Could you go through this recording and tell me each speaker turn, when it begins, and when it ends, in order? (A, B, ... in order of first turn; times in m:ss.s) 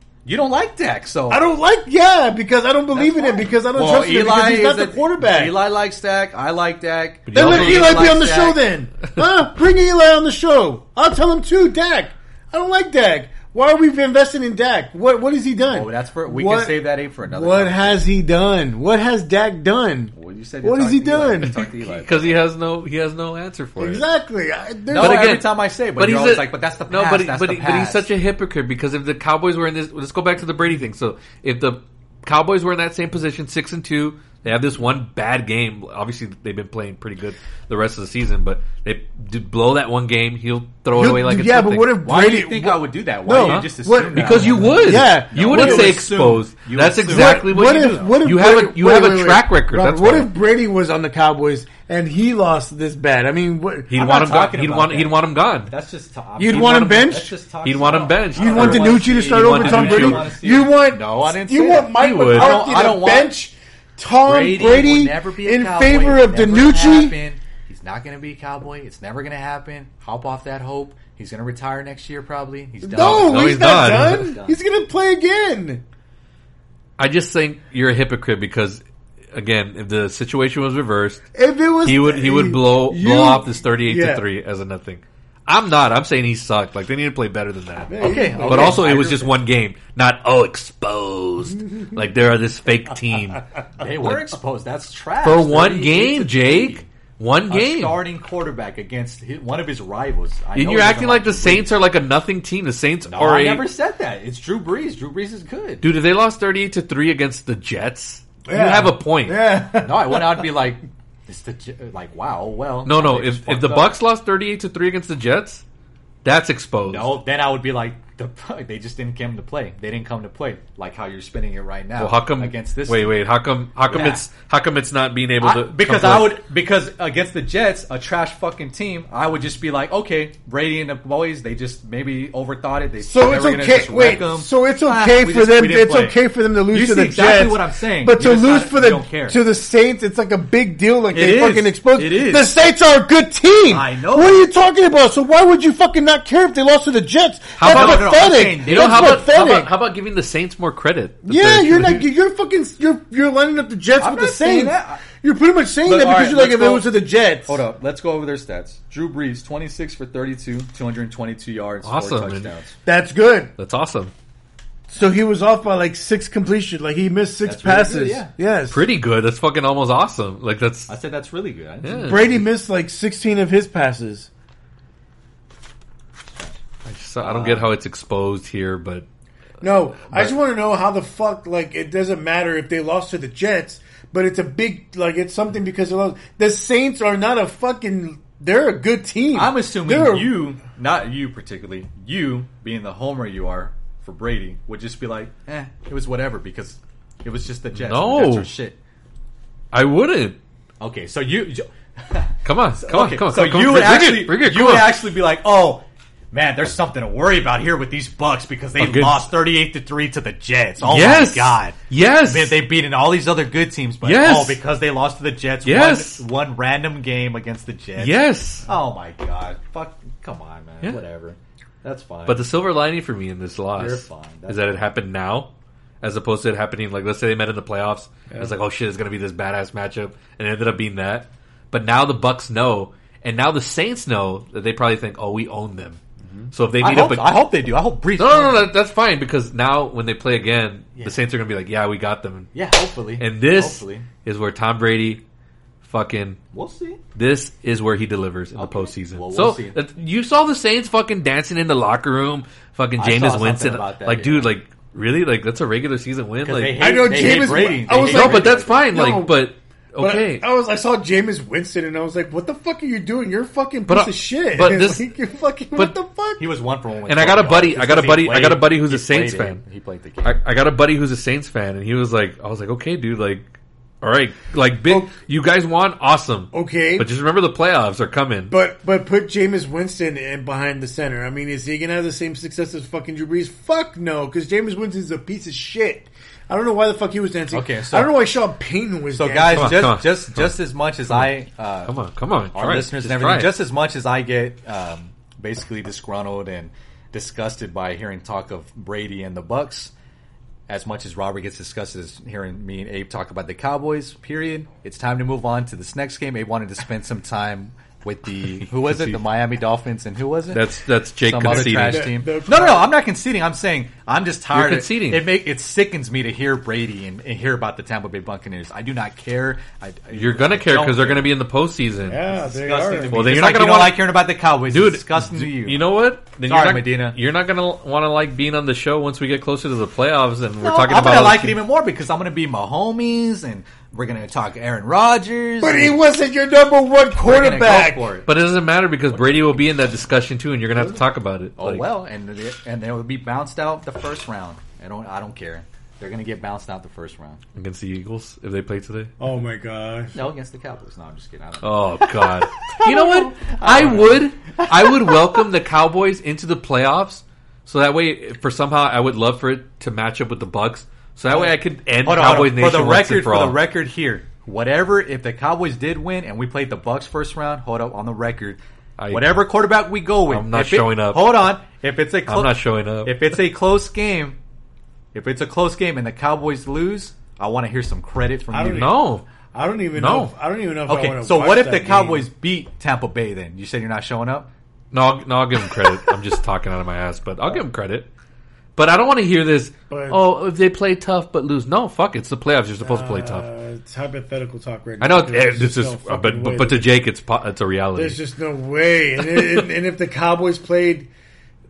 0:00.2-0:01.4 A
0:01.3-0:05.6 B
0:02.9-0:08.6 A
0:07.3-0:08.2 C
0:07.3-0:21.6 B
0:15.7-0:18.1 A
0:20.1-0:22.4 A
0:21.6-0:24.1 C
0:23.8-0:25.4 B
0:24.9-0:28.1 A
0:25.0-0:41.9 C
0:40.9-0:46.0 B
0:42.0-0:48.2 A
0:43.4-0:50.3 C
0:47.1-0:54.0 B
0:53.9-0:55.7 C
0:53.9-1:03.3 A
0:56.4-0:57.3 B
0:56.4-1:00.3 C
0:58.3-1:07.2 B
1:02.0-1:02.6 C
1:04.2-1:14.6 A
1:12.8-1:15.8 B
1:13.0-1:14.3 C
1:17.0-1:18.8 C
1:19.3-1:21.2 C
1:21.3-1:24.2 B
1:21.8-1:34.3 C
1:27.9-1:28.9 B
1:28.0-1:29.3 A
1:33.8-1:36.9 A
1:35.2-1:38.0 C
1:37.5-1:41.8 A
1:40.5-1:43.7 C
1:43.1-1:45.8 A
1:45.8-1:49.6 C
1:48.5-1:50.5 B
1:49.8-1:53.9 A
1:52.8-1:55.6 C
1:56.2-1:57.2 C
1:56.8-2:03.1 A
2:02.0-2:06.4 C
2:03.9-2:04.2 A
2:05.4-2:19.4 A
2:13.0-2:29.7 B
2:21.1-2:22.6 A
2:23.7-2:24.5 A
2:27.6-2:32.0 C
2:27.6-2:29.3 A
2:31.2-2:37.6 B
2:34.0-2:35.0 A
2:35.8-2:42.7 A
2:41.8-2:42.5 C
2:42.8-2:43.5 B
2:43.6-2:44.1 C
2:44.9-2:48.8 B
2:47.4-2:48.3 A
2:48.7-2:50.9 C
2:50.9-2:52.4 A
2:51.8-2:52.3 C
2:52.0-2:54.3 B
2:56.8-2:59.0 C
2:57.2-2:57.7 A
2:59.6-3:10.5 B
2:59.7-3:00.4 C
3:09.3-3:18.8 A
3:17.7-3:18.5 C
3:19.7-3:20.4 C
3:20.8-3:42.4 A
3:22.4-3:25.0 C
3:28.8-3:29.4 C
3:30.8-3:32.6 C
3:34.0-3:34.6 C
3:35.6-3:36.2 C
3:38.0-3:38.6 C
3:42.2-3:56.0 C
3:43.8-3:44.8 A
3:56.5-3:57.5 C
3:56.8-3:58.7 A
3:58.2-4:02.5 C
4:02.5-4:04.1 A
4:03.2-4:05.2 C
4:05.8-4:06.4 C
4:06.5-4:07.0 A
4:07.1-4:17.5 C
4:08.5-4:09.8 A
4:13.0-4:14.5 A
4:16.4-4:18.8 A
4:16.8-4:26.4 B
4:18.0-4:20.4 C
4:23.9-4:25.1 C
4:26.4-4:30.4 A
4:27.1-4:29.6 C
4:30.2-4:33.5 C
4:34.0-4:38.6 C
4:34.8-4:35.1 B
4:36.5-4:37.1 B
4:38.5-4:49.9 B
4:47.5-4:48.2 A
4:49.2-4:51.9 A
4:49.5-4:53.6 C
4:52.5-4:59.9 A
5:00.7-5:10.7 A
5:08.7-5:09.2 C
5:10.5-5:12.2 C
5:11.2-5:21.3 A
5:11.4-5:12.9 B
5:14.5-5:15.3 C
5:20.1-5:22.2 C
5:22.0-5:23.2 B
5:22.3-5:25.8 A
5:23.1-5:31.6 C
5:26.4-5:27.2 A
5:30.6-5:36.0 A
5:35.6-5:38.1 B
5:37.2-5:38.3 A
5:38.2-5:41.9 C
5:39.1-5:39.6 A
5:41.6-5:47.4 A
5:47.5-5:49.1 C
5:49.2-5:50.1 B
5:50.1-5:55.2 A
5:51.6-6:03.6 C
6:01.3-6:14.4 A
6:09.0-6:09.5 C
6:10.3-6:11.5 C
6:12.3-6:13.4 C
6:15.1-6:18.9 A
6:18.5-6:22.3 B
6:18.7-6:19.2 C
6:19.9-6:20.3 C
6:20.9-6:24.5 A
6:24.9-6:28.1 C
6:28.8-6:33.4 C
6:29.9-6:30.2 B
6:32.8-6:36.9 B
6:35.0-6:38.2 C
6:37.9-6:41.1 B
6:39.3-6:39.6 C